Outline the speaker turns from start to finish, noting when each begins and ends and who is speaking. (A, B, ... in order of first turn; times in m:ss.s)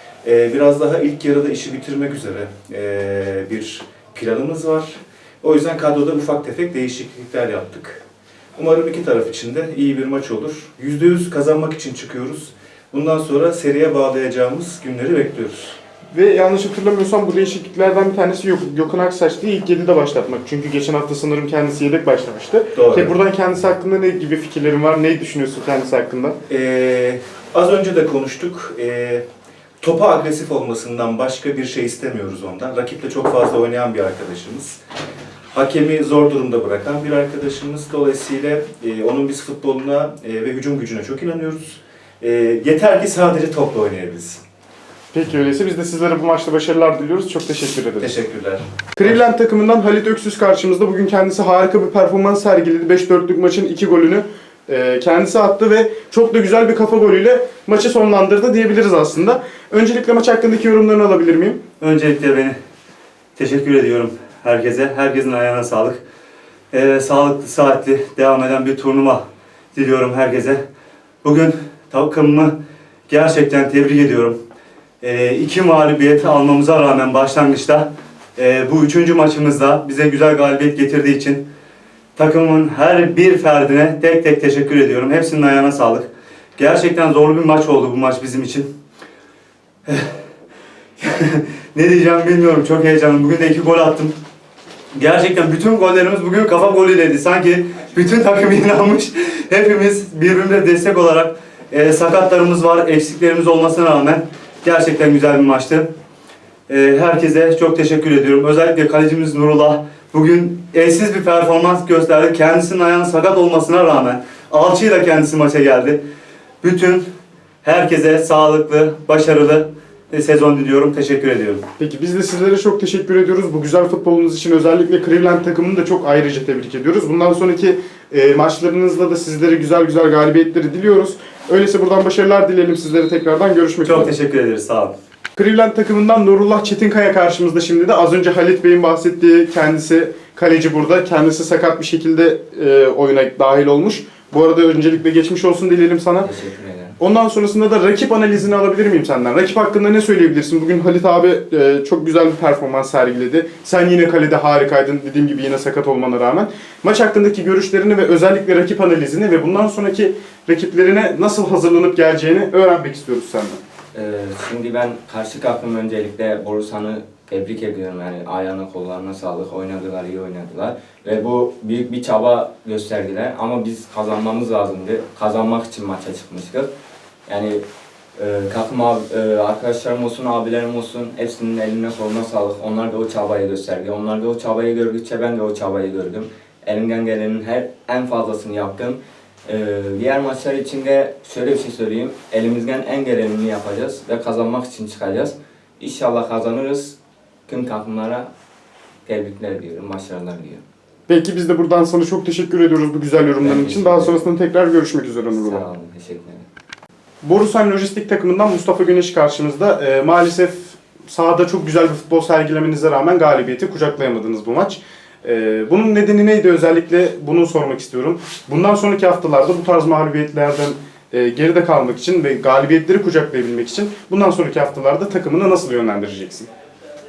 0:00.2-0:08.0 A
0:08.5-0:15.8 A
0:16.1-0:26.4 B
0:22.7-0:23.1 A
0:26.5-0:29.2 A
0:29.8-0:34.8 A
0:35.5-0:44.4 A
0:45.1-0:48.1 B
0:48.0-0:48.6 A
0:49.0-1:01.6 B
1:01.8-1:02.6 C
1:03.4-1:06.0 C
1:06.7-1:09.2 C
1:09.7-1:10.6 C
1:11.2-1:12.5 C
1:13.1-1:14.4 C
1:15.0-1:21.4 C
1:22.2-1:28.7 C
1:29.8-1:30.1 C
1:31.0-1:34.1 C
1:34.9-1:45.9 C
1:46.7-1:56.0 C
1:56.6-1:57.0 C
1:57.6-2:01.6 C
2:01.8-2:14.1 B
2:13.8-2:14.9 C
2:15.4-2:26.3 B
2:26.2-2:27.0 D
2:27.0-2:43.6 B
2:43.9-2:56.7 D
2:57.3-2:57.6 D
2:58.2-3:17.0 D
3:17.5-3:18.3 D
3:19.0-3:20.6 D
3:21.1-3:25.6 B
3:23.4-3:24.2 D
3:25.3-3:26.4 D
3:27.2-3:46.5 B